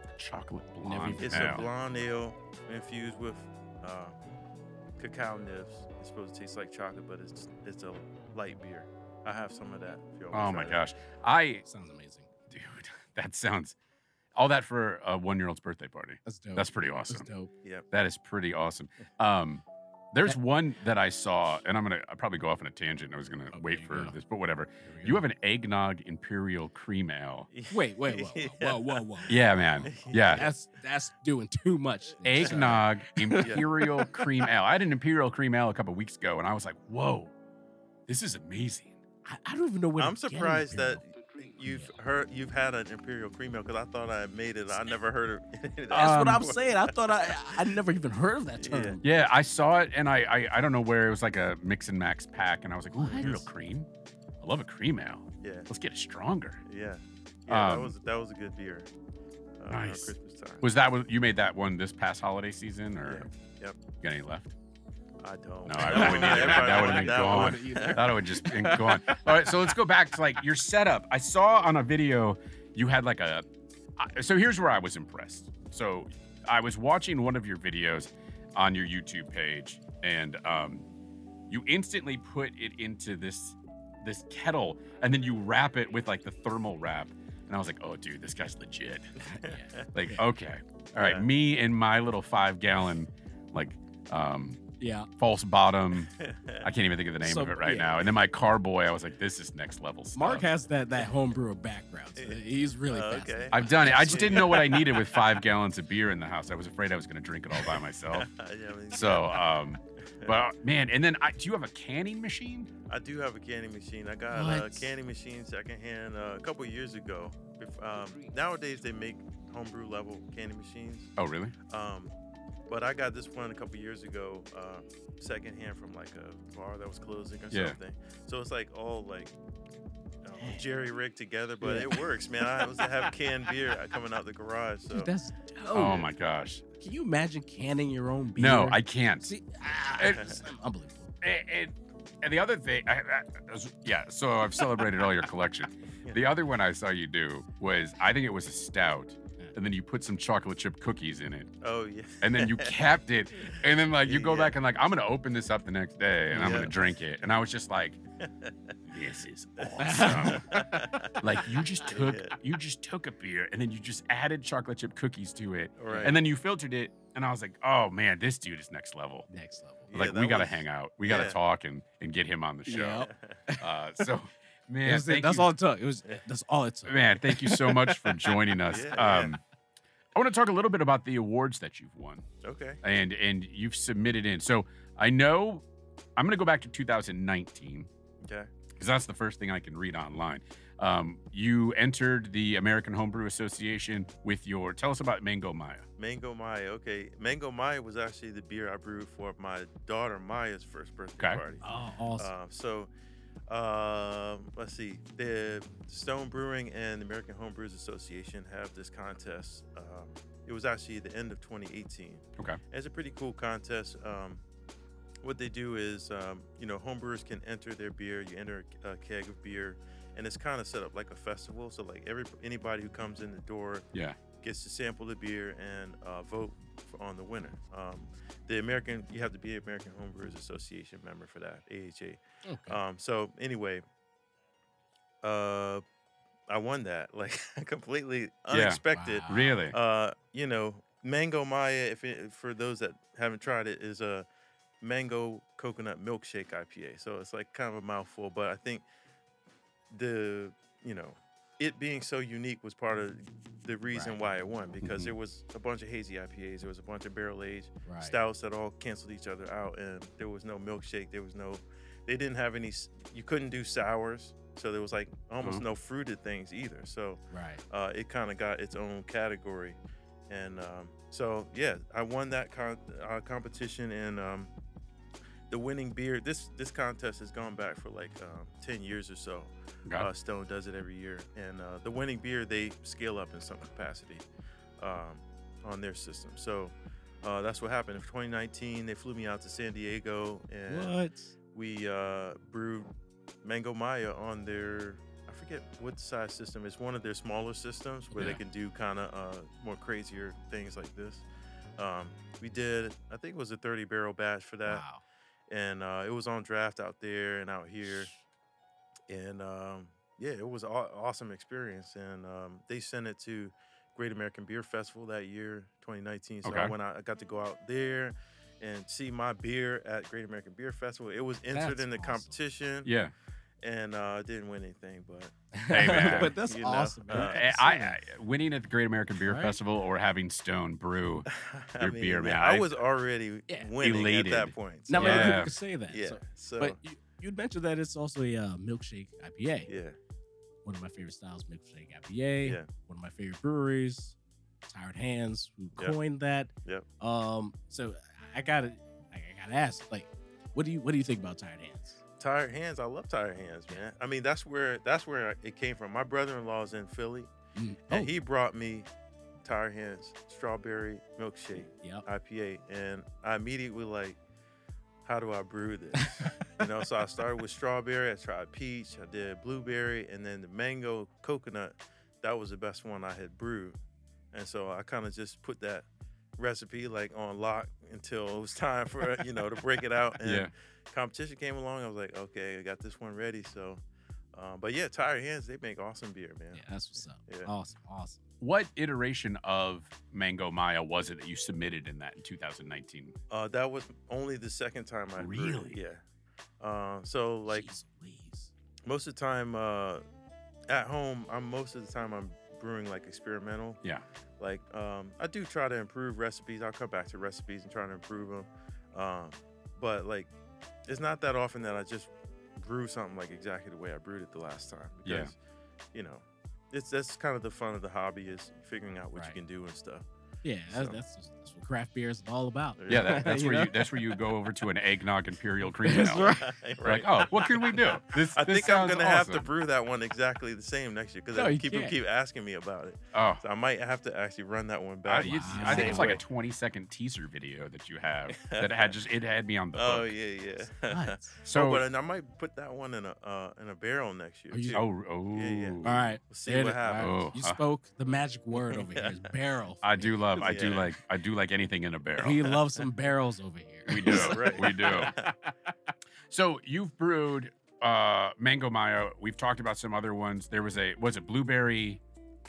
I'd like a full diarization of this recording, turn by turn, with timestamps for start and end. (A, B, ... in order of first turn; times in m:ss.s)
0:00.2-0:01.7 A
0:00.8-0:01.4 B
0:01.1-0:04.2 C
0:05.0-0:10.8 C
0:10.3-0:11.6 A
0:11.6-0:12.3 B
0:12.5-0:13.7 A
0:14.3-0:17.3 A
0:16.2-0:17.5 B
0:17.9-0:27.5 A
0:23.5-0:24.1 B
0:24.8-0:25.2 B
0:27.5-0:29.3 C
0:27.7-0:34.2 B
0:29.3-0:30.5 A
0:29.8-0:30.5 C
0:32.2-0:37.3 A
0:32.4-0:32.8 C
0:38.1-0:39.0 A
0:39.2-0:42.0 B
0:40.0-0:47.8 C
0:45.9-0:49.0 B
0:45.9-0:46.4 A
0:48.6-0:49.0 C
0:49.0-0:53.9 A
0:53.0-0:53.4 B
0:54.4-0:56.6 A
0:55.4-0:55.7 C
0:56.6-0:58.9 C
0:57.5-0:57.9 A
0:59.6-1:00.7 C
0:59.7-1:03.3 A
1:03.0-1:03.8 C
1:04.0-1:04.5 A
1:05.2-1:08.1 C
1:05.6-1:13.4 A
1:05.8-1:09.7 B
1:14.0-1:20.9 A
1:21.5-1:34.6 A
1:29.4-1:29.8 C
1:29.4-1:30.2 B
1:31.0-1:31.3 C
1:34.8-1:35.1 B
1:35.2-1:40.5 A
1:36.1-1:36.7 C
1:37.2-1:38.1 B
1:40.1-1:44.8 B
1:42.2-1:45.1 C
1:43.5-1:48.3 A
1:48.1-1:49.6 C
1:48.9-1:52.7 A
1:50.1-1:50.4 C
1:52.9-2:01.1 C
1:54.3-1:54.9 B
2:01.2-2:01.5 A
2:01.7-2:02.1 C
2:02.7-2:09.3 C
2:07.5-2:07.8 A
2:10.2-2:15.1 C
2:10.4-2:10.6 B
2:11.6-2:13.1 B
2:14.9-2:16.1 B
2:15.7-2:16.6 A
2:16.8-2:21.1 B
2:18.4-2:19.3 A
2:20.0-2:20.2 A
2:20.1-2:20.4 C
2:21.2-2:31.5 A
2:31.6-2:34.6 C
2:32.2-2:38.0 A
2:36.3-2:36.8 B
2:36.4-2:36.7 C
2:38.2-2:38.7 C
2:38.8-2:49.3 A
2:39.6-2:42.4 C
2:39.8-2:41.1 B
2:45.8-2:46.2 C
2:49.3-2:49.9 B
2:49.9-2:51.4 C
2:49.9-2:55.5 A
2:52.6-2:53.7 B
2:53.1-2:53.4 C
2:54.8-2:58.4 B
2:56.8-2:59.4 A
2:58.6-2:59.4 C
3:00.1-3:02.2 A
3:02.4-3:02.8 C
3:02.8-3:05.6 A
3:06.2-3:07.9 A
3:08.2-3:08.5 C
3:08.8-3:15.8 A
3:16.0-3:22.9 C
3:21.6-3:22.3 B
3:23.5-3:34.4 C
3:35.2-3:43.9 C
3:44.4-3:53.8 C
3:52.4-3:52.8 B
3:55.2-3:55.8 C
3:56.5-4:04.3 C
3:58.5-3:59.8 A
3:58.9-3:59.6 B
4:04.8-4:08.8 C
4:09.9-4:29.8 C
4:13.9-4:14.2 B
4:17.8-4:18.2 B
4:27.3-4:27.6 B
4:30.3-4:34.5 C
4:35.5-4:44.2 C
4:44.8-4:51.0 C
4:50.7-4:51.3 B
4:51.5-4:52.9 C
4:53.4-5:01.2 C
5:01.8-5:04.8 C
5:04.6-5:05.0 B
5:05.5-5:08.1 C
5:09.1-5:22.9 C
5:16.4-5:16.7 A
5:21.5-5:22.4 B
5:22.8-5:23.1 A
5:23.6-5:27.6 C
5:25.5-5:28.0 B
5:25.7-5:26.4 A
5:27.1-5:32.7 A
5:29.2-5:29.5 B
5:31.3-5:36.8 C
5:33.8-5:35.5 A
5:34.9-5:39.7 B
5:39.7-5:40.0 C
5:40.6-5:44.2 B
5:44.7-5:52.0 B
5:52.2-5:57.3 C
5:57.6-5:58.1 B
5:57.9-5:58.9 C
5:59.4-6:04.2 C
6:01.7-6:02.0 B
6:05.0-6:13.8 C
6:06.0-6:06.5 B
6:14.3-6:23.8 C
6:20.2-6:20.5 A
6:24.3-6:26.6 C
6:26.5-6:28.2 B
6:28.4-6:33.2 A
6:33.3-6:36.0 C
6:35.2-6:35.8 A
6:36.6-6:37.7 C
6:37.5-6:38.5 B
6:38.9-6:40.0 C
6:40.7-6:43.8 C
6:44.4-6:50.3 C
6:50.9-6:55.3 C
6:55.0-6:55.3 A
6:55.9-7:00.0 C
7:00.4-7:04.2 B
7:00.7-7:01.0 C
7:02.8-7:03.3 C
7:02.9-7:09.4 A
7:05.8-7:06.5 B
7:05.9-7:16.2 C
7:11.3-7:12.0 B
7:13.1-7:13.4 A
7:15.0-7:20.1 A
7:15.2-7:16.2 B
7:18.3-7:18.9 C
7:19.7-7:27.2 C
7:20.8-7:21.4 B
7:21.4-7:21.8 A
7:24.5-7:24.8 B
7:24.7-7:26.1 A
7:25.8-7:30.6 B
7:27.0-7:27.6 A
7:28.5-7:29.3 C
7:29.8-7:32.5 A
7:30.4-7:30.9 C
7:32.2-7:35.5 B
7:33.9-7:35.1 A
7:34.0-7:35.3 C
7:36.3-7:42.0 A